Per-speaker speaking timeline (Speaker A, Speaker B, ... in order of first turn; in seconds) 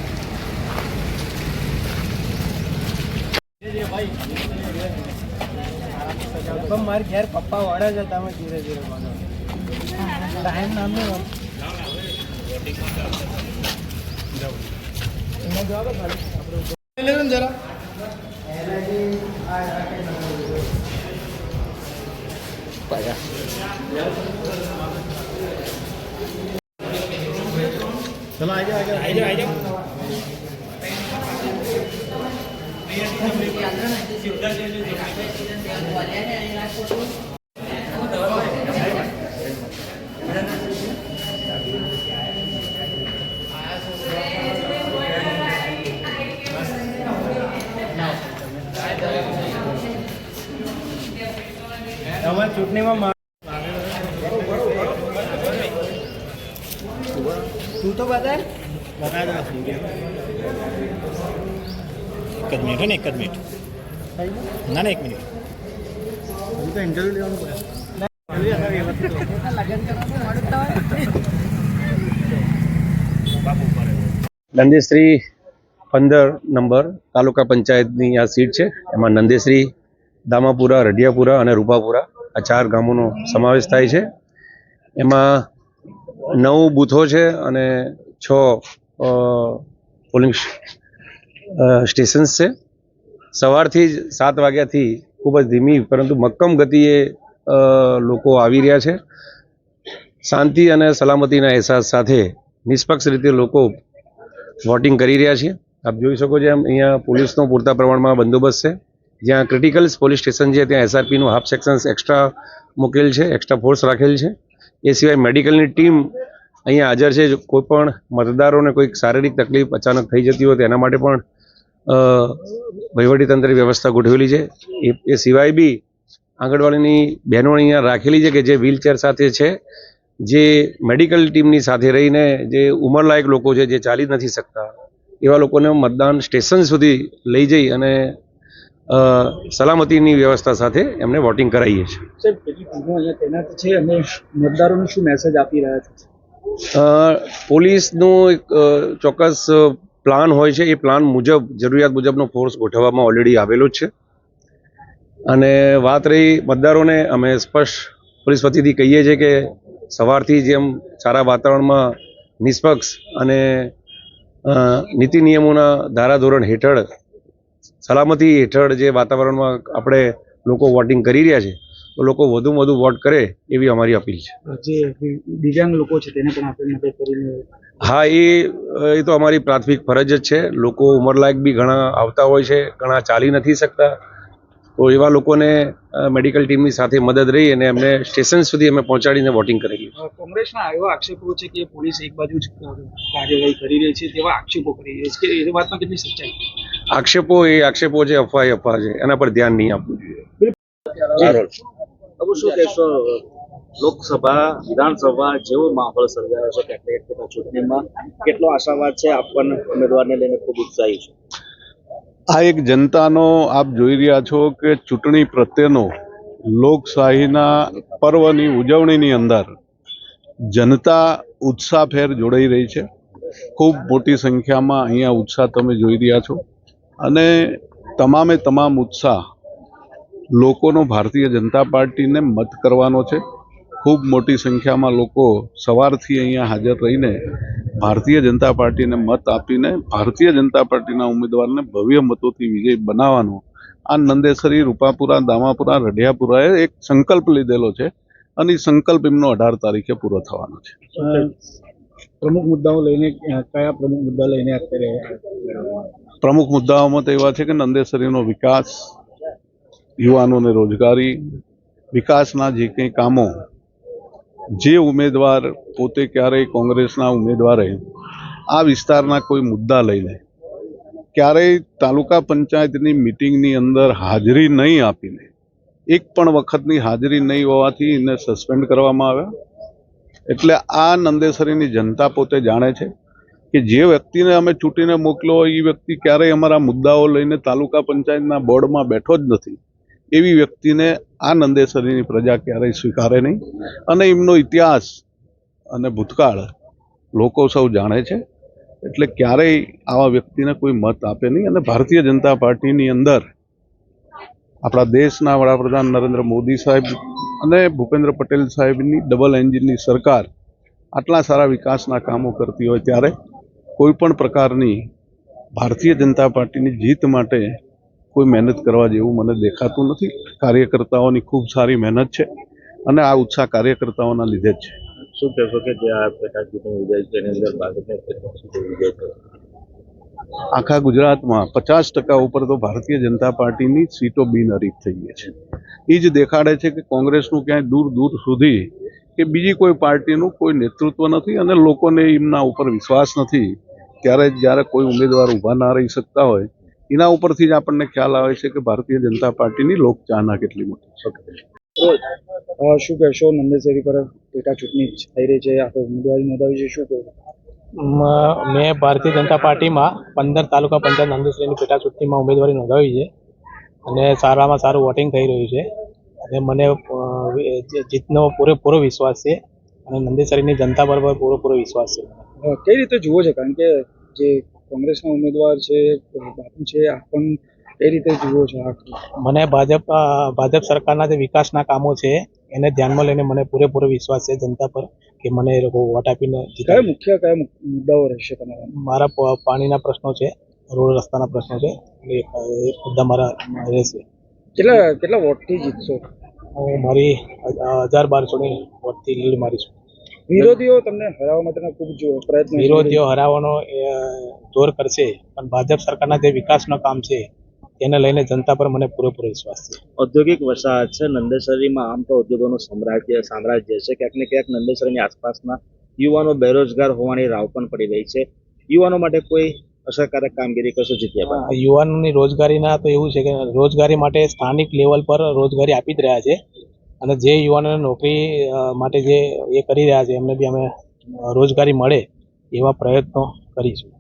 Speaker A: 74.5-75.2, 75.9-79.7, 80.3-84.1, 85.0-85.5, 86.4-90.5, 91.6-92.5, 93.3-99.0, 100.2-103.7, 104.7-114.3, 114.8-116.1, 116.7-121.2, 121.9-125.8, 126.4-129.6, 130.3-134.7, 135.2-138.2, 138.9-142.0, 146.7-153.9, 155.3-159.4, 159.9-163.7, 164.5-166.8, 167.8-174.3, 177.8-184.0, 184.8-189.9, 196.9-200.2
Speaker B: 142.2-146.1, 174.5-177.3, 190.0-196.3, 252.2-255.0, 352.6-357.1, 372.4-378.9, 386.7-388.6, 394.6-396.0, 400.3-403.0
Speaker C: 201.0-201.5, 202.2-203.2, 203.8-211.1, 325.2-329.1, 410.0-421.4
Speaker D: 212.3-215.9, 216.5-219.5, 220.5-222.9, 223.6-226.4, 227.0-229.2, 230.4-233.2, 233.8-237.2, 237.8-250.8, 256.2-258.9, 260.0-261.2, 261.9-263.3, 264.6-267.8, 268.5-270.2, 271.1-275.3, 275.9-279.3, 280.3-282.9, 283.5-289.6, 290.1-295.0, 295.7-296.5, 297.1-298.2, 298.8-303.2, 304.6-310.3, 310.9-313.1, 313.8-314.8, 315.6-317.6, 318.1-322.3, 322.9-324.7, 330.5-335.3, 335.9-351.2
Speaker E: 357.8-363.1, 363.9-365.7, 366.2-372.2, 379.2-386.9, 388.8-394.0, 396.6-399.7, 402.6-407.3, 407.8-409.8, 421.5-426.4, 427.0-430.7, 431.2-433.9